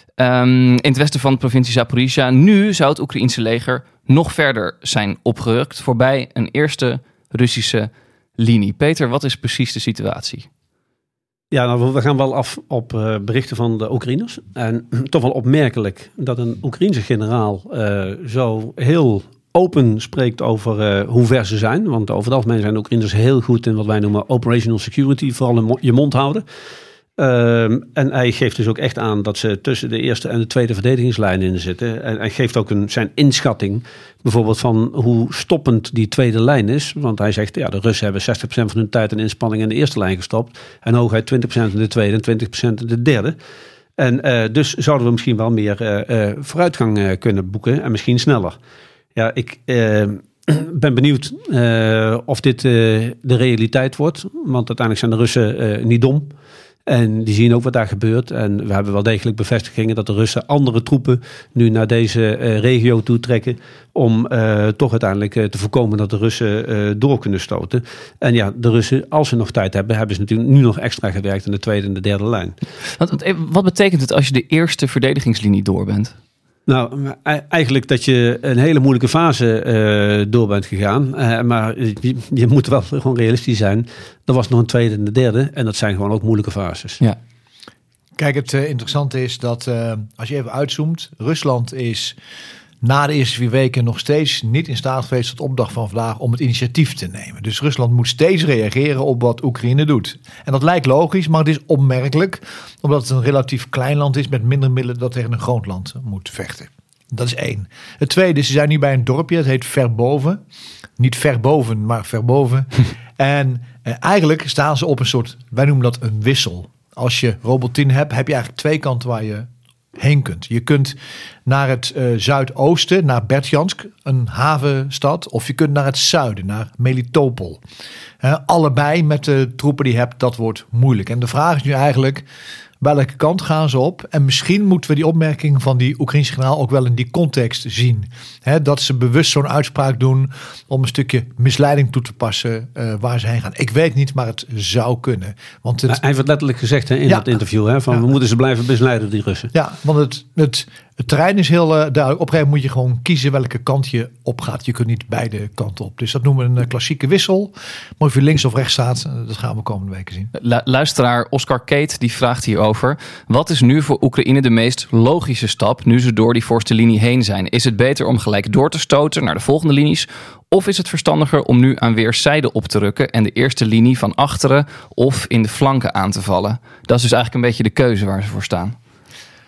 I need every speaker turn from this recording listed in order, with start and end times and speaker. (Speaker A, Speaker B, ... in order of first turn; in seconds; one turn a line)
Speaker A: 0.2-10.5
Speaker B: 11.5-26.4
Speaker B: 27.2-43.4
Speaker B: 44.0-48.6
Speaker B: 49.1-56.3
Speaker B: 56.9-72.6
Speaker A: 73.0-76.1
Speaker B: 76.7-87.0
Speaker C: 88.2-92.2
Speaker C: 92.8-110.4
Speaker C: 111.0-127.6
Speaker C: 128.2-132.2
Speaker C: 132.8-146.0
Speaker B: 145.9-149.5
Speaker C: 147.1-147.4
Speaker C: 149.5-160.3
Speaker A: 160.3-178.8